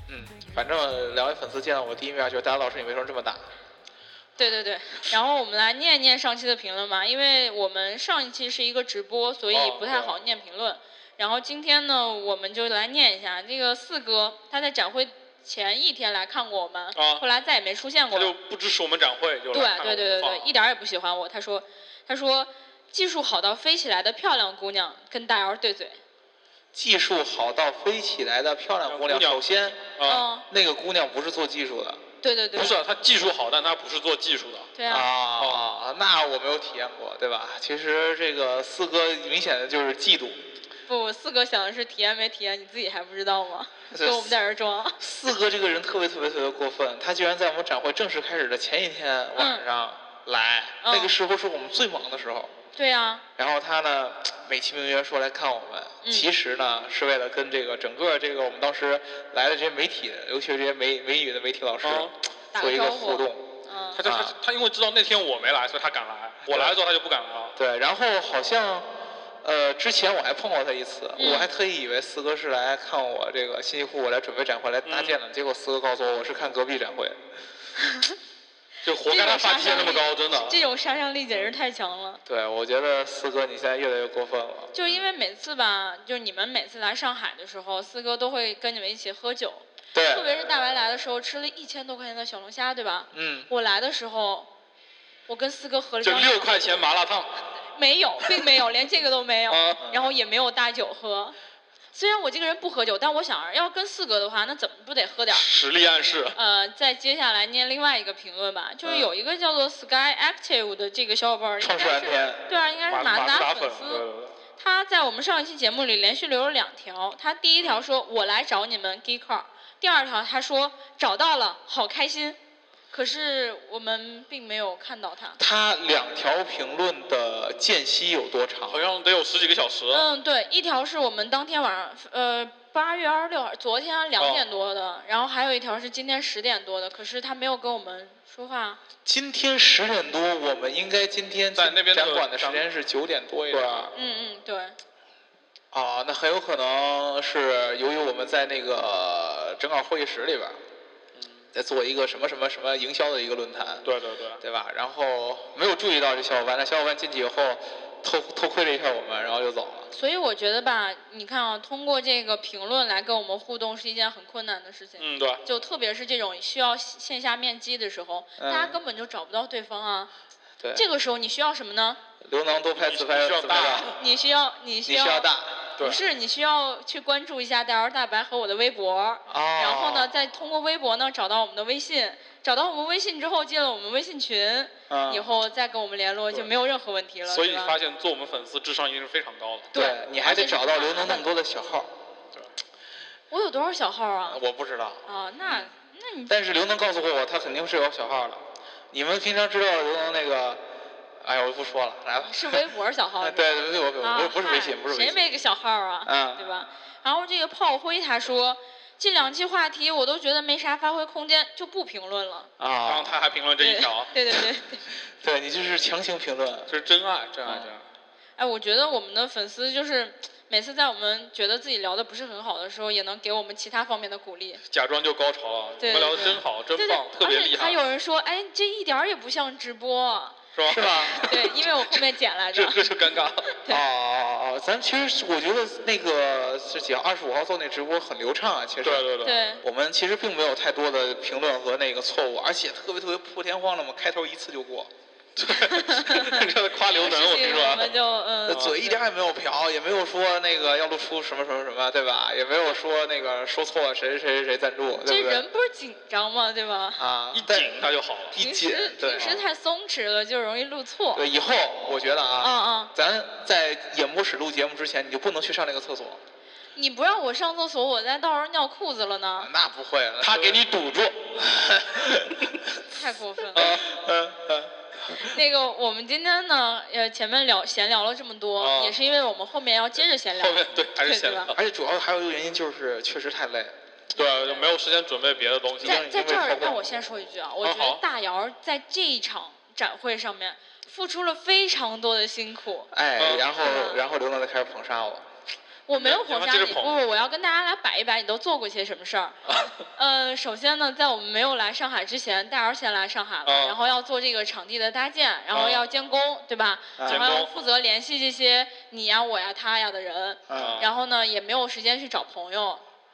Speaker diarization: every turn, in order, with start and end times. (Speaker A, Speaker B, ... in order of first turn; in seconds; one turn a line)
Speaker A: 0.1-3.5
Speaker B: 4.4-18.4
Speaker C: 9.5-10.1
Speaker C: 16.9-17.2
Speaker C: 18.1-20.5
Speaker B: 19.5-26.0
Speaker A: 26.7-29.9
Speaker C: 28.9-29.4
Speaker C: 30.0-30.3
Speaker B: 30.1-30.5
Speaker A: 30.5-32.0
Speaker B: 32.2-32.8
Speaker C: 32.6-34.7
Speaker B: 34.8-35.1
Speaker A: 34.9-40.4
Speaker C: 35.4-35.6
Speaker B: 40.9-45.0
Speaker A: 43.9-44.4
Speaker A: 45.0-52.5
Speaker B: 49.4-49.6
Speaker B: 50.8-51.1
Speaker B: 52.8-53.2
Speaker A: 53.4-63.5
Speaker B: 56.0-56.3
Speaker C: 61.8-62.1
Speaker B: 62.5-64.0
Speaker C: 64.0-67.5
Speaker A: 64.0-64.4
Speaker A: 66.5-66.8
Speaker A: 67.6-68.9
Speaker A: 69.4-77.2
Speaker B: 71.2-71.5
Speaker C: 74.9-75.2
Speaker B: 77.8-78.1
Speaker C: 78.8-80.6
Speaker B: 79.1-82.2
Speaker A: 82.3-84.9
Speaker B: 84.7-94.5
Speaker A: 89.9-90.3
Speaker A: 93.1-93.5
Speaker B: 95.3-96.5
Speaker C: 96.0-97.4
Speaker B: 97.7-101.4
Speaker C: 99.5-99.9
Speaker B: 101.9-105.5
Speaker C: 105.3-106.4
Speaker B: 106.3-114.0
Speaker A: 108.8-109.1
Speaker A: 111.6-112.4
Speaker C: 112.9-114.3
Speaker B: 114.6-122.4
Speaker B: 122.9-125.4
Speaker A: 125.4-128.8
Speaker C: 128.7-130.1
Speaker B: 129.9-138.8
Speaker C: 134.2-134.4
Speaker A: 139.1-143.9
Speaker C: 141.6-142.7
Speaker C: 143.5-143.9
Speaker B: 143.9-144.8
Speaker A: 145.7-150.6
Speaker C: 151.2-151.4
Speaker A: 151.5-153.9
Speaker C: 153.8-154.4
Speaker A: 154.4-159.9
Speaker B: 159.9-170.1
Speaker C: 165.0-165.4
Speaker A: 168.4-168.8
Speaker B: 170.8-172.0
Speaker A: 172.2-173.9
Speaker C: 172.8-174.0
Speaker B: 173.9-187.8
Speaker A: 174.9-175.8
Speaker A: 179.3-180.1
Speaker A: 184.9-185.3
Speaker C: 187.3-189.7
Speaker B: 189.7-191.3
Speaker A: 189.7-191.9
Speaker B: 193.3-194.4
Speaker A: 194.3-195.7
Speaker B: 195.1-196.3
Speaker A: 196.3-200.6
Speaker A: 201.2-202.6
Speaker B: 202.2-212.5
Speaker A: 203.2-205.2
Speaker A: 206.1-206.4
Speaker A: 212.6-213.2
Speaker C: 212.9-214.1
Speaker B: 213.6-214.8
Speaker A: 215.2-216.7
Speaker C: 216.7-217.8
Speaker A: 217.5-217.7
Speaker B: 218.4-224.6
Speaker C: 224.7-227.8
Speaker B: 225.8-230.4
Speaker C: 230.6-232.0
Speaker A: 230.7-231.2
Speaker B: 231.2-232.8
Speaker C: 232.5-233.5
Speaker A: 233.7-244.9
Speaker C: 238.8-239.4
Speaker B: 239.2-239.6
Speaker C: 245.4-248.0
Speaker B: 245.5-248.9
Speaker A: 248.5-255.4
Speaker C: 248.5-248.8
Speaker B: 255.1-257.0
Speaker A: 257.0-259.4
Speaker C: 257.3-258.4
Speaker B: 258.4-261.2
Speaker A: 261.1-266.2
Speaker B: 262.4-262.9
Speaker B: 266.8-269.5
Speaker A: 269.4-270.6
Speaker C: 270.2-271.4
Speaker A: 271.4-272.5
Speaker B: 272.9-273.7
Speaker C: 273.5-273.9
Speaker A: 273.6-274.7
Speaker B: 275.1-281.5
Speaker C: 278.6-278.9
Speaker C: 280.4-281.6
Speaker A: 281.5-283.8
Speaker C: 284.1-286.0
Speaker B: 284.2-284.7
Speaker A: 285.8-286.9
Speaker B: 285.8-292.9
Speaker C: 287.6-288.0
Speaker A: 292.9-295.3
Speaker C: 293.2-293.5
Speaker B: 293.6-294.0
Speaker B: 295.9-312.8
Speaker C: 295.9-296.9
Speaker C: 299.5-299.7
Speaker C: 303.4-303.8
Speaker C: 305.5-305.8
Speaker A: 307.0-307.4
Speaker C: 307.1-307.5
Speaker A: 310.5-310.8
Speaker C: 310.5-310.9